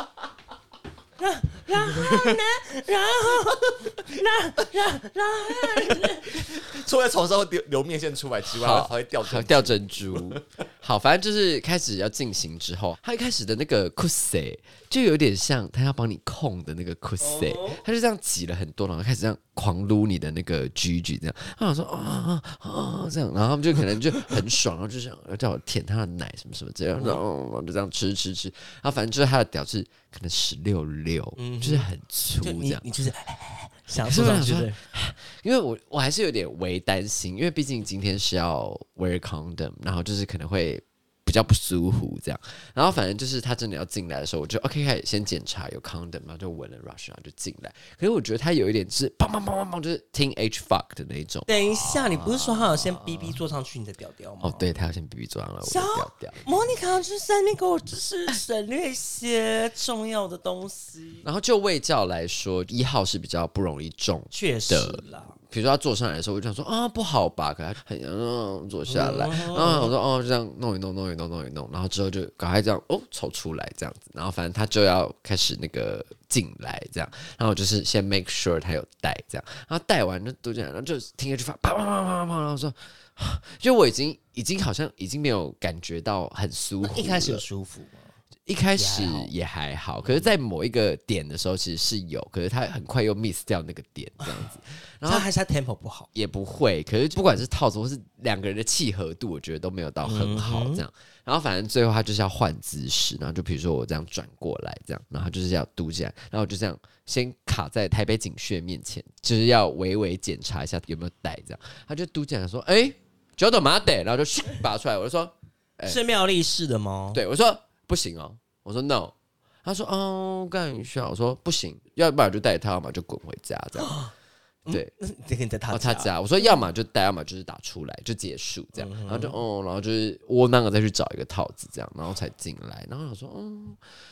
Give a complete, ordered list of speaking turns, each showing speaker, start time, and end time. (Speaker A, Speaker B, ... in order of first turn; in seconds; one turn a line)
Speaker A: 1.2-6.4
Speaker B: 6.0-10.4
Speaker C: 8.5-32.9
Speaker A: 17.2-17.8
Speaker A: 27.0-27.2
Speaker A: 31.4-31.9
Speaker A: 32.4-34.8
Speaker C: 34.0-51.5
Speaker A: 51.5-54.7
Speaker C: 54.4-56.5
Speaker A: 55.6-61.2
Speaker C: 61.2-87.5
Speaker A: 64.3-65.4
Speaker A: 68.9-69.9
Speaker A: 86.8-88.2
Speaker C: 88.5-95.3
Speaker A: 88.8-89.3
Speaker A: 94.2-94.5
Speaker A: 95.0-96.1
Speaker C: 96.1-116.0
Speaker A: 100.0-100.8
Speaker A: 115.8-117.2
Speaker C: 117.1-124.0
Speaker A: 123.8-124.1
Speaker A: 124.7-126.7
Speaker C: 125.7-133.8
Speaker A: 128.8-129.4